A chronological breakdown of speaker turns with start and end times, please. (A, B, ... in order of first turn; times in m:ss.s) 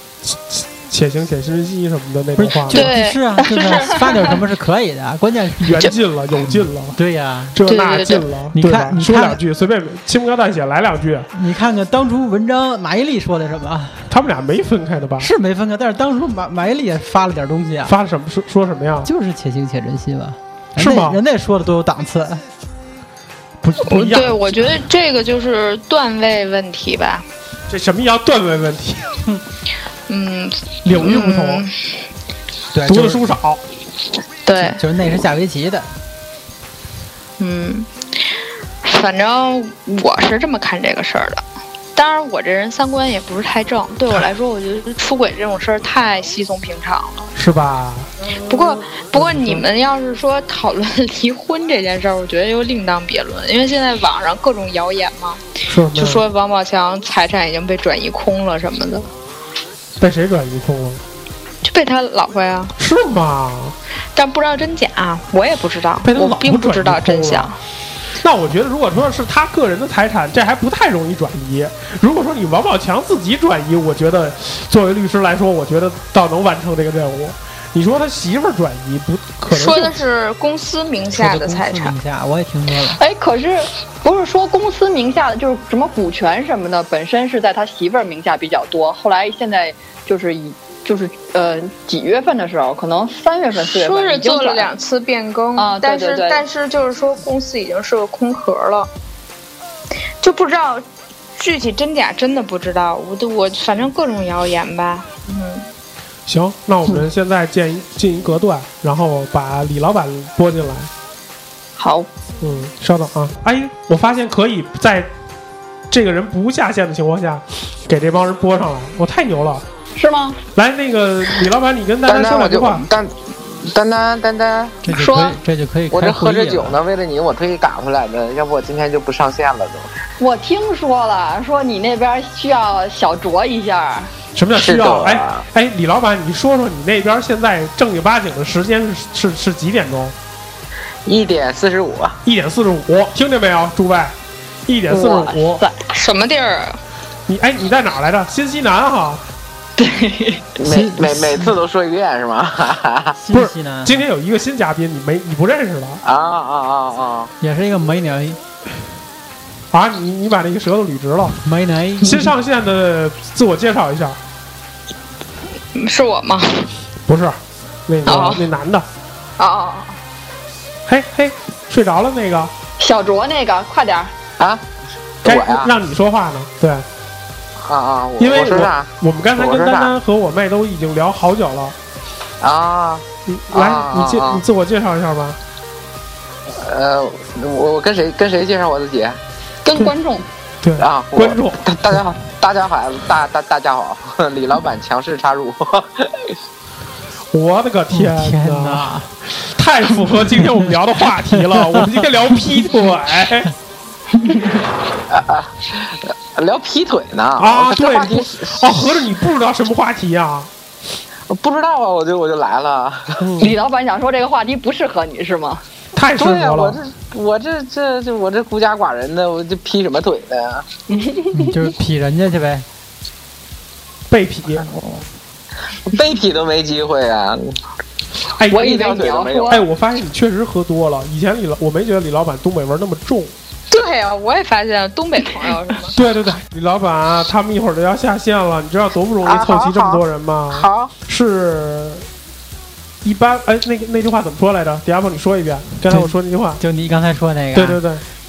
0:00.2-0:02.9 A
0:02.4-0:05.9 B
0:02.7-0:04.2 C
0:05.6-0:07.0 A
0:06.5-0:07.6 B
0:07.5-0:11.3 A
0:07.6-0:08.2 C
0:08.5-0:09.4 B
0:11.3-0:14.1 B
0:14.1-0:15.3 A
0:15.2-0:17.9 B
0:17.8-0:19.1 A
0:19.0-0:22.4 B
0:20.8-0:21.2 A
0:23.6-0:24.7 A
0:23.8-0:27.2 C
0:27.7-0:29.0 A
0:30.1-0:31.7 C
0:30.8-0:31.7 A
0:32.7-0:33.2 B
0:32.8-0:33.6 A
0:34.4-0:34.8 C
0:34.6-0:35.9 B
0:37.4-0:37.9 C
0:38.8-0:41.4 C
0:42.0-0:47.3 C
0:47.3-0:48.1 A
0:48.4-0:55.4 C
0:49.1-0:49.7 A
0:55.7-0:56.2 A
0:55.9-0:59.1 C
1:00.0-1:01.0 A
1:01.6-1:02.7 C
1:02.8-1:03.8 A
1:04.1-1:07.6 C
1:06.0-1:07.5 A
1:08.2-1:20.0 A
1:19.5-1:21.9 C
1:21.2-1:23.0 B
1:23.0-1:34.7 D
1:33.7-1:38.9 C
1:35.6-1:36.4 D
1:40.2-1:40.8 C
1:41.4-1:45.6 C
1:46.3-1:50.9 A
1:51.8-1:52.1 D
1:52.4-1:55.1 A
1:55.9-1:59.6 A
2:00.0-2:00.4 D
2:00.5-2:02.8 A
2:02.1-2:04.8 E
2:04.8-2:06.8 B
2:05.0-2:05.3 C
2:05.9-2:09.9 E
2:10.2-2:14.1 D
2:14.3-2:20.2 A
2:14.6-2:15.4 E
2:21.0-2:22.2 E
2:22.2-2:24.1 A
2:24.7-2:25.6 A
2:24.9-2:25.8 D
2:25.9-2:26.8 C
2:27.3-2:29.2 A
2:29.8-2:30.5 D
2:30.6-2:33.2 E
2:30.6-2:31.6 B
2:33.2-2:34.0 B
2:33.3-2:36.0 A
2:36.0-2:37.3 E
2:37.4-2:38.4 B
2:39.7-2:41.4 A
2:41.4-2:42.3 B
2:42.0-2:44.2 A
2:45.7-2:46.7 C
2:47.1-2:48.9 A
2:48.0-2:48.5 C
2:49.4-2:49.9 C
2:50.9-2:52.5 A
2:52.8-2:54.1 D
2:54.4-2:54.6 E
2:55.2-2:55.7 E
2:55.2-2:56.8 A
2:57.6-2:59.9 E
2:58.2-3:01.8 A
3:02.4-3:04.4 E
3:03.3-3:05.4 A
3:06.5-3:09.2 E
3:09.6-3:10.3 D
3:10.6-3:12.0 A
3:10.8-3:16.3 E
3:17.3-3:23.5 A
3:17.9-3:19.1 B
3:21.3-3:22.1 B
3:25.1-3:28.8 E
3:27.4-3:30.5 A
3:31.3-3:33.3 E
3:33.2-3:33.5 A
3:33.4-3:35.6 D
3:35.9-3:36.8 A
3:36.2-3:40.6 E
3:40.9-3:41.3 D
3:41.3-3:42.6 B
3:44.1-3:44.6 A
3:45.9-3:47.6 E
3:48.3-3:48.8 A
3:48.5-3:49.6 D
3:48.5-3:49.6 E
3:49.4-3:53.3 A
3:53.7-3:56.0 C
3:55.9-4:02.0 A
3:59.2-4:00.9 E
4:03.0-4:06.6 A
4:05.9-4:07.8 B
4:07.5-4:08.0 A